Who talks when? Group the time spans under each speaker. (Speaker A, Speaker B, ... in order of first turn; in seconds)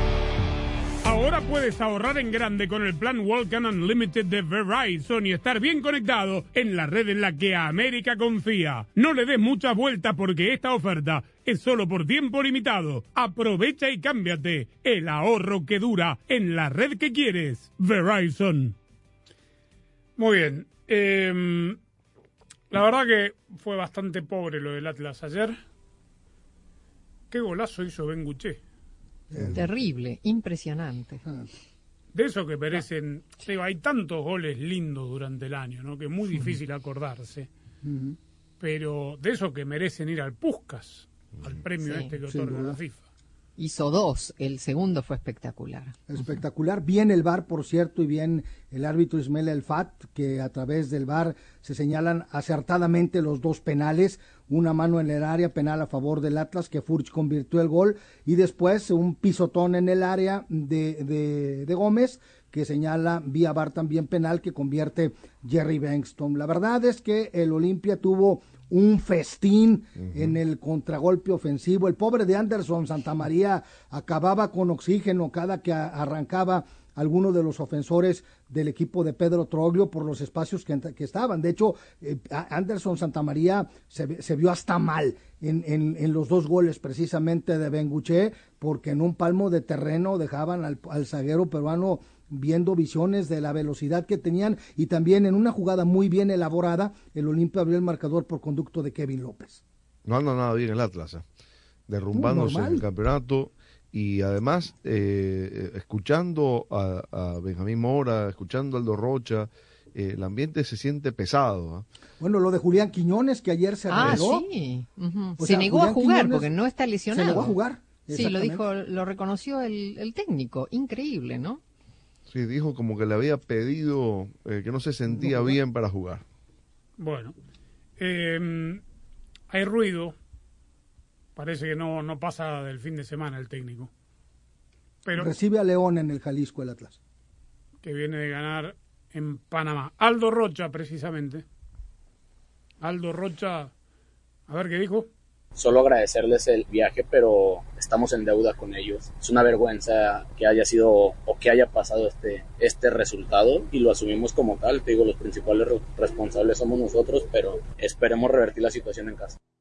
Speaker A: 1.0-18.8, 20.2-21.8, 22.7-25.6, 27.3-28.6, 32.1-37.5, 38.6-43.0, 127.0-127.3, 128.0-128.8, 129.5-130.1, 131.3-133.9, 135.0-135.3, 137.8-141.4, 142.8-143.7, 144.5-145.1
Speaker B: 29.3-29.6, 37.8-38.2, 42.3-42.8, 46.1-99.6, 102.1-102.8, 112.2-114.5, 115.4-116.5, 117.1-118.6, 125.1-125.6, 135.1-137.0
Speaker C: 29.5-31.2, 41.8-42.1, 43.6-46.0, 113.9-117.6, 118.1-121.6
Speaker D: 70.0-70.3, 100.0-101.2, 101.9-111.8, 122.3-126.2
Speaker E: 145.6-159.4